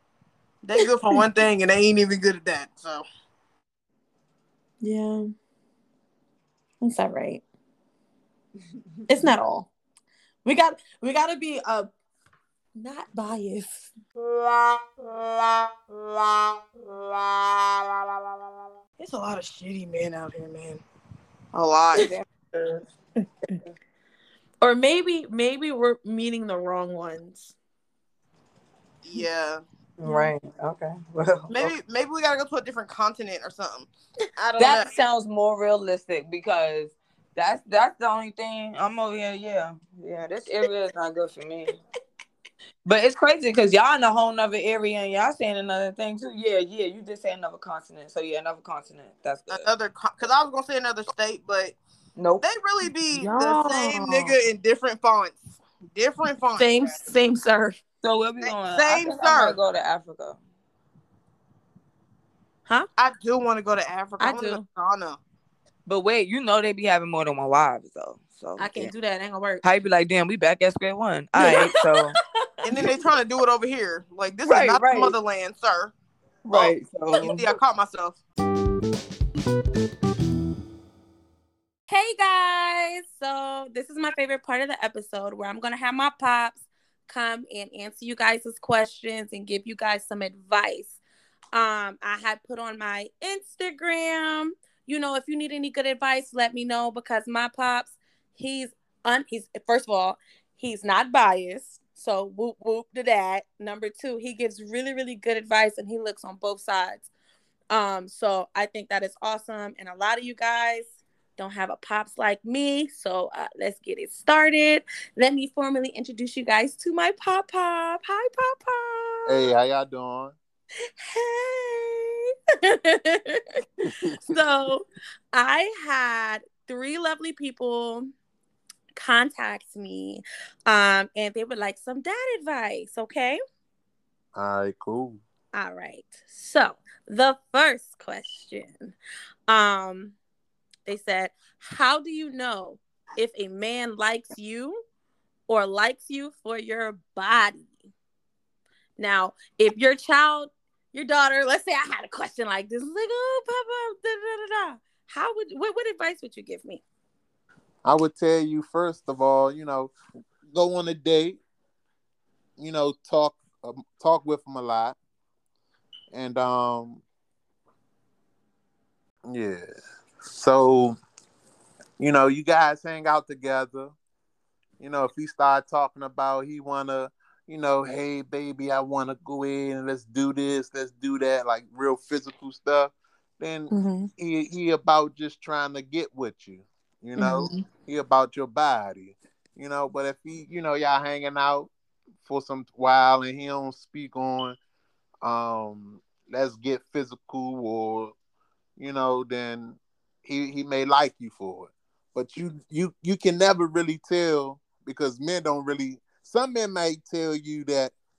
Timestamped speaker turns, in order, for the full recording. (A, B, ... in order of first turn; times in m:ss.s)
0:00.6-0:03.0 A
0:04.8-0:05.2 B
0:06.8-0:07.4 B
0:09.1-0:09.7 B
0:10.4-0:11.9 B
0:12.8-0:13.9 B
0:14.2-0:16.8 A
0:19.0-0:20.8 A
0:21.5-0:22.1 A
0:22.0-0:22.7 C
0:24.6-0:27.6 B
0:29.0-0:29.6 A
0:30.0-0:31.7 C
0:30.0-0:30.3 B
0:31.5-0:34.9 A
0:34.6-0:41.8 C
0:42.8-0:49.7 C
0:49.5-0:51.8 A
0:52.2-0:52.5 C
0:52.4-0:57.0 A
0:53.1-0:54.4 B
0:56.6-0:57.8 B
0:58.0-1:00.4 C
0:58.4-0:59.6 A
1:03.0-1:05.2 A
1:04.2-1:04.6 B
1:05.9-1:08.9 C
1:08.6-1:09.6 B
1:09.6-1:12.1 C
1:11.4-1:12.1 B
1:12.6-1:15.9 A
1:14.5-1:15.1 C
1:16.4-1:17.5 C
1:16.5-1:18.2 A
1:21.9-1:31.0 B
1:31.5-1:47.1 B
1:47.7-1:59.5 B
1:59.3-2:00.4 D
2:01.0-2:08.1 B
2:08.9-2:13.4 B
2:14.4-2:15.2 D
2:15.5-2:19.0 B
2:19.5-2:20.2 B
2:20.9-2:24.8 B
2:25.5-2:27.7 B
2:29.0-2:36.8 B
2:37.8-2:39.9 D
2:40.5-2:41.4 D
2:42.6-2:45.0 D
2:46.1-2:47.0 D
2:49.3-2:49.7 D
2:50.3-2:51.0 D
2:52.0-2:53.9 D
2:54.8-3:11.7 D
3:03.7-3:04.1 B
3:07.2-3:07.6 B
3:12.2-3:14.6 D
3:15.2-3:18.2 D
3:18.8-3:27.9 D